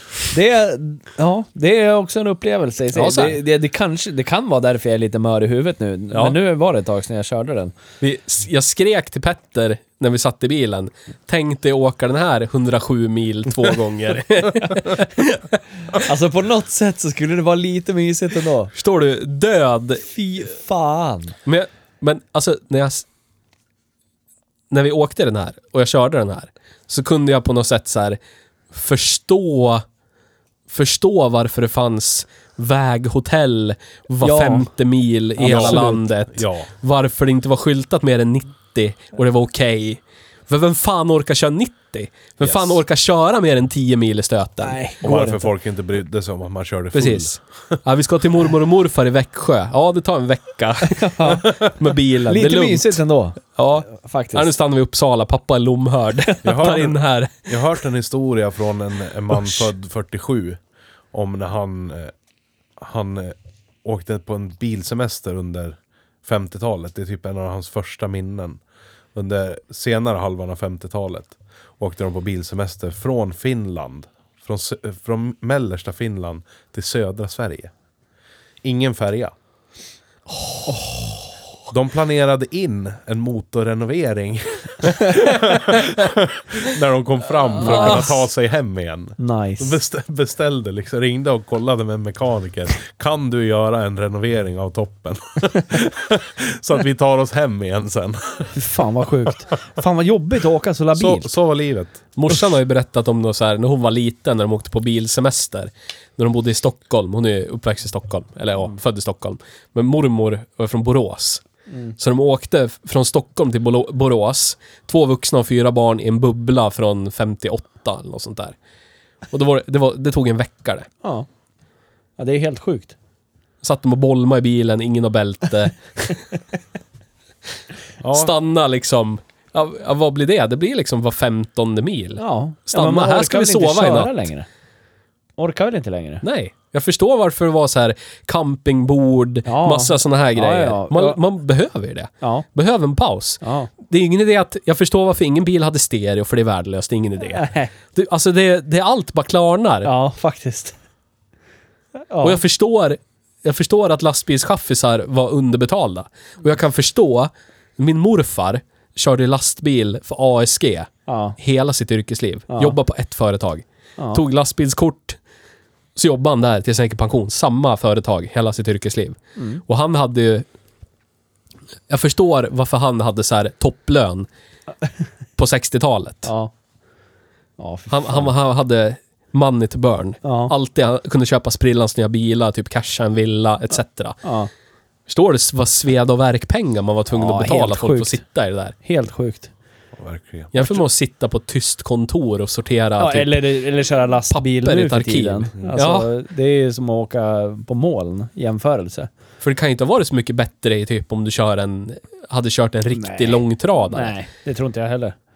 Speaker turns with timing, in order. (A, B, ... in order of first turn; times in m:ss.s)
0:00.3-0:07.7 A
0:02.9-0:03.4 B
0:08.0-0:15.4 B
0:15.9-0:18.7 A
0:18.7-0:20.1 B
0:20.1-0:21.3 A
0:21.4-0:23.0 B
0:24.7-0:28.2 B
0:28.7-0:29.8 B
0:30.7-0:44.8 B
0:34.2-0:34.7 A
0:35.4-0:36.0 A
0:35.4-0:36.7 C
0:42.4-0:42.8 C
0:44.6-0:45.5 A
0:45.0-0:47.3 C
0:46.9-0:53.0 B
0:51.0-0:51.5 A
0:52.2-0:54.5 A
0:53.6-0:57.5 B
0:56.4-1:00.6 C
1:01.1-1:02.1 C
1:02.8-1:08.6 C
1:09.1-1:17.7 C
1:18.6-1:19.3 C
1:20.7-1:21.0 A
1:21.7-1:38.5 C
1:27.6-1:28.1 A
1:27.7-1:28.0 B
1:29.2-1:29.8 A
1:38.5-1:41.3 A
1:40.9-1:42.1 C
1:42.2-1:51.4 B
1:51.7-1:51.9 A
1:52.0-1:58.5 B
1:59.3-2:00.9 B
2:02.2-2:02.9 A
2:03.6-2:06.2 B
2:08.0-2:08.3 C
2:08.1-2:14.2 B
2:12.2-2:14.5 A
2:15.4-2:16.2 A
2:16.2-2:29.9 B
2:19.4-2:21.2 A
2:23.4-2:23.7 A
2:27.3-2:27.7 A
2:29.8-2:30.7 A
2:32.1-2:32.4 A
2:32.2-2:45.2 B
2:41.1-2:41.4 A
2:42.5-2:42.8 A
2:44.0-2:44.2 A
2:46.0-2:50.4 B
2:51.9-2:54.3 B
2:55.4-2:56.3 B
2:56.2-2:56.5 A
2:57.6-2:58.3 A
2:57.9-3:04.2 B
3:00.2-3:00.5 A
3:04.2-3:04.5 A
3:05.1-3:08.7 B
3:07.1-3:08.2 A
3:08.8-3:09.5 A
3:09.9-3:10.8 C
3:10.5-3:13.6 B
3:13.0-3:19.1 A
3:14.3-3:16.1 B
3:19.4-3:24.1 B
3:22.9-3:25.2 A